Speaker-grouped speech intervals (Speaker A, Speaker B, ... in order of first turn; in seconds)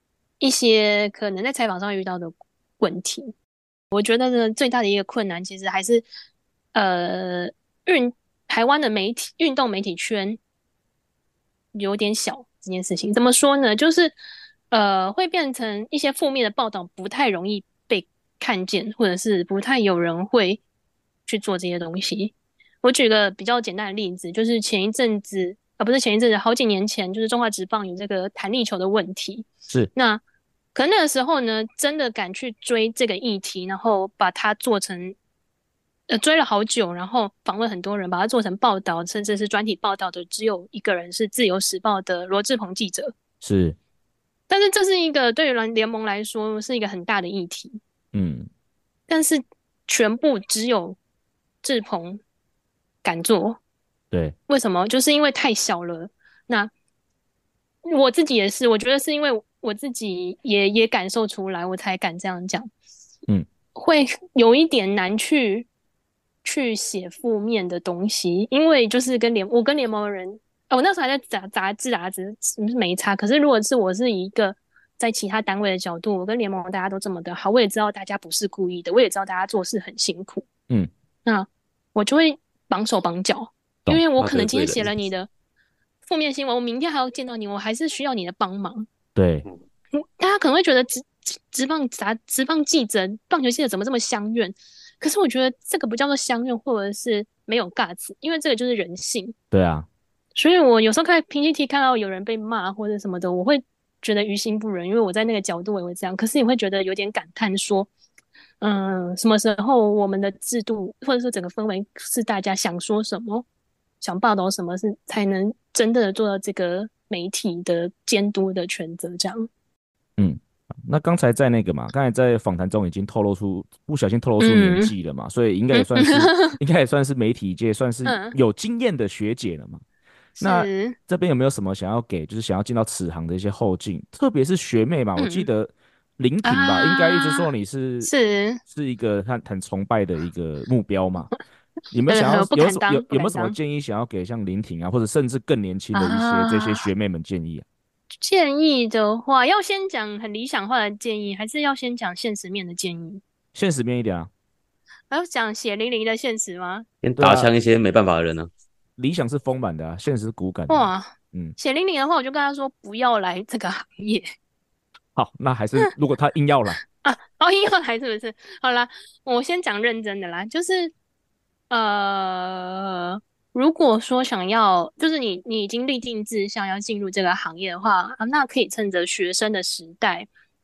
Speaker A: 0.4-3.3, 3.9-6.0, 6.7-10.4, 11.7-14.2, 14.7-20.6, 21.3-30.2, 30.7-35.2, 36.1-43.1, 44.5-47.8, 49.1-51.0, 51.6-52.2, 53.0-53.6, 54.5-56.7, 57.9-62.7, 63.8-65.7, 66.4-80.5, 81.2-85.3, 86.1-88.9, 90.0-99.3, 100.4-107.9, 108.6-113.5, 114.0-119.5, 124.4-124.9, 125.7-126.6, 128.1-128.4, 130.4-131.0, 135.2-135.5, 136.4-137.5, 138.0-138.6, 142.1-143.6, 145.9-146.9, 148.2-153.2, 155.1-156.9, 160.7-164.3, 167.0-170.9, 171.7-180.3
Speaker B: 43.4-43.8, 48.1-48.5, 89.2-89.5, 99.5-99.9, 120.2-129.8, 130.4-138.1, 138.7-141.3, 141.9-147.7, 153.5-154.3, 157.2-157.5, 159.0-161.6, 165.2-166.8
Speaker C: 84.2-84.9, 157.0-158.5